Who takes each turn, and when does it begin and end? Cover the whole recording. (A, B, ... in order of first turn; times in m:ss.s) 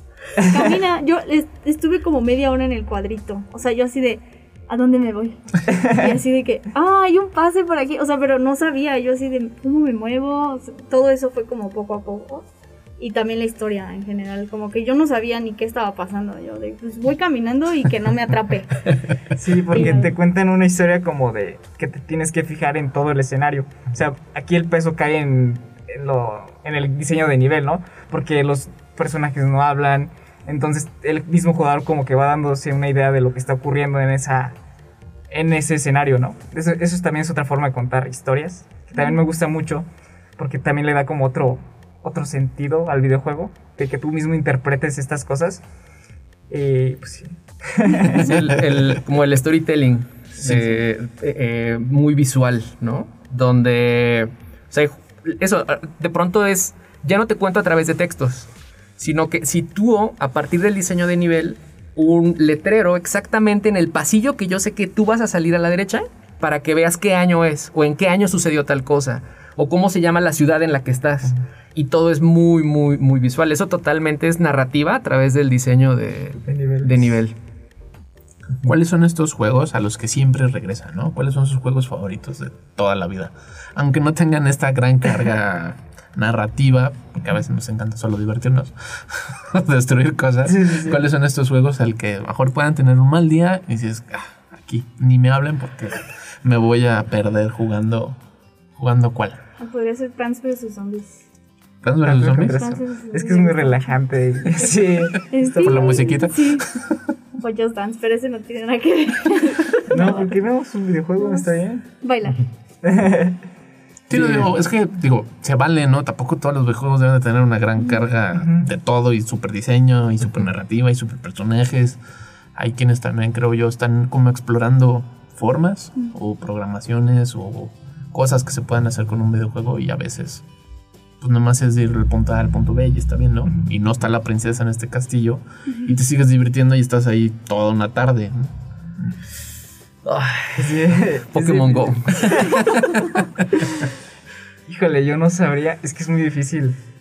0:00.4-0:12.5 A
0:00.4-0:00.8 B
0:05.7-0:06.2 B
0:13.0-0:19.1 A
0:19.4-0:34.6 B
0:19.7-0:20.1 A
0:35.3-0:39.9 B
0:40.4-0:45.6 B
0:46.5-0:48.4 B
0:48.0-1:17.4 C
0:50.4-0:50.7 D
1:16.5-1:17.2 B
1:18.6-1:38.2 D
1:30.5-1:31.0 B
1:38.8-1:39.4 D
1:39.6-1:41.2 A
1:41.8-1:42.6 D
1:42.0-1:46.2 B
1:42.4-1:44.0 A
1:45.3-1:46.7 A
1:45.6-1:47.0 D
1:47.4-1:50.3 A
1:49.9-1:51.8 B
1:51.2-1:52.4 A
1:52.8-1:53.4 B
1:54.1-2:02.0 D
1:54.1-1:54.5 B
1:58.3-1:58.7 B
2:02.6-2:10.4 D
2:11.2-2:19.2 D
2:20.0-2:23.0 C
2:20.6-2:22.7 B
2:24.7-2:26.8 B